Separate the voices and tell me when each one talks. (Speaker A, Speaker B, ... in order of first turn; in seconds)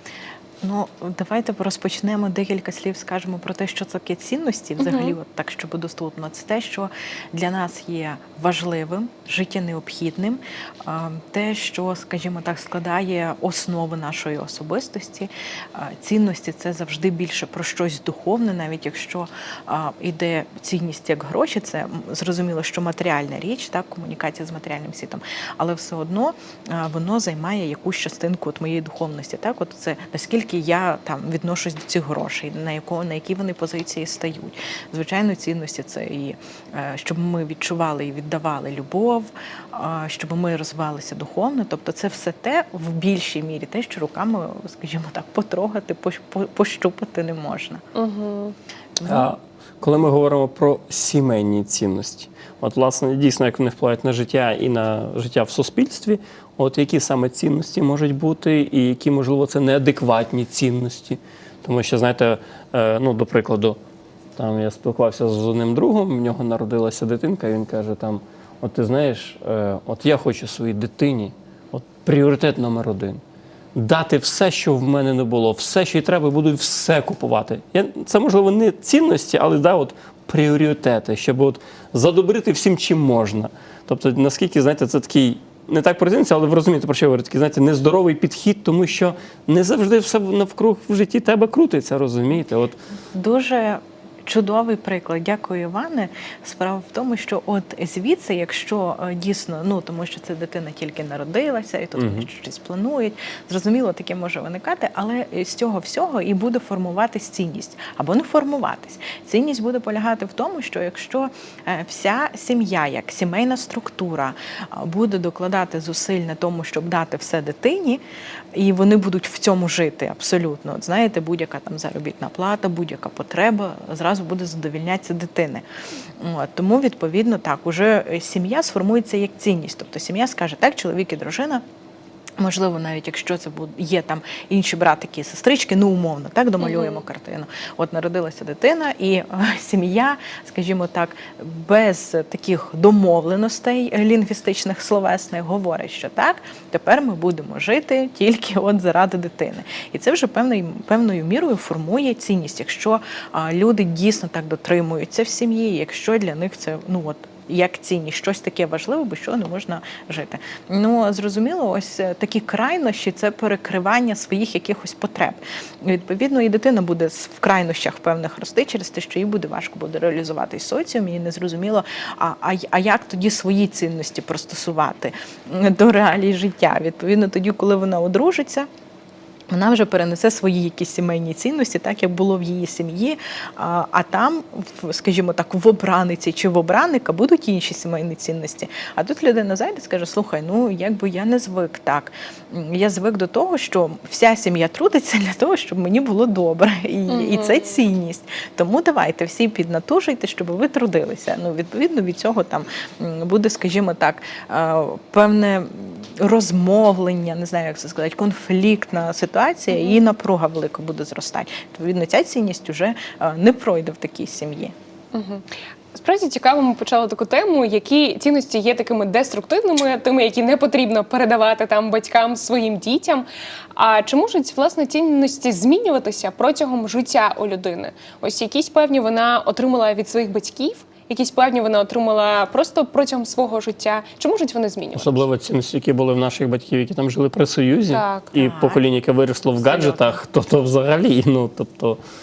Speaker A: 0.6-47.8, 49.0-49.3, 93.1-118.0, 118.5-125.6, 126.2-131.6, 132.4-178.7, 179.5-214.7, 238.4-238.8, 239.6-240.2
Speaker B: 4.8-5.1, 47.9-48.5, 136.6-137.0, 197.1-197.8, 209.7-210.0, 215.1-235.2, 237.9-238.3
Speaker C: 49.0-63.8, 64.3-73.2, 73.7-92.8, 102.0-102.3, 234.9-242.0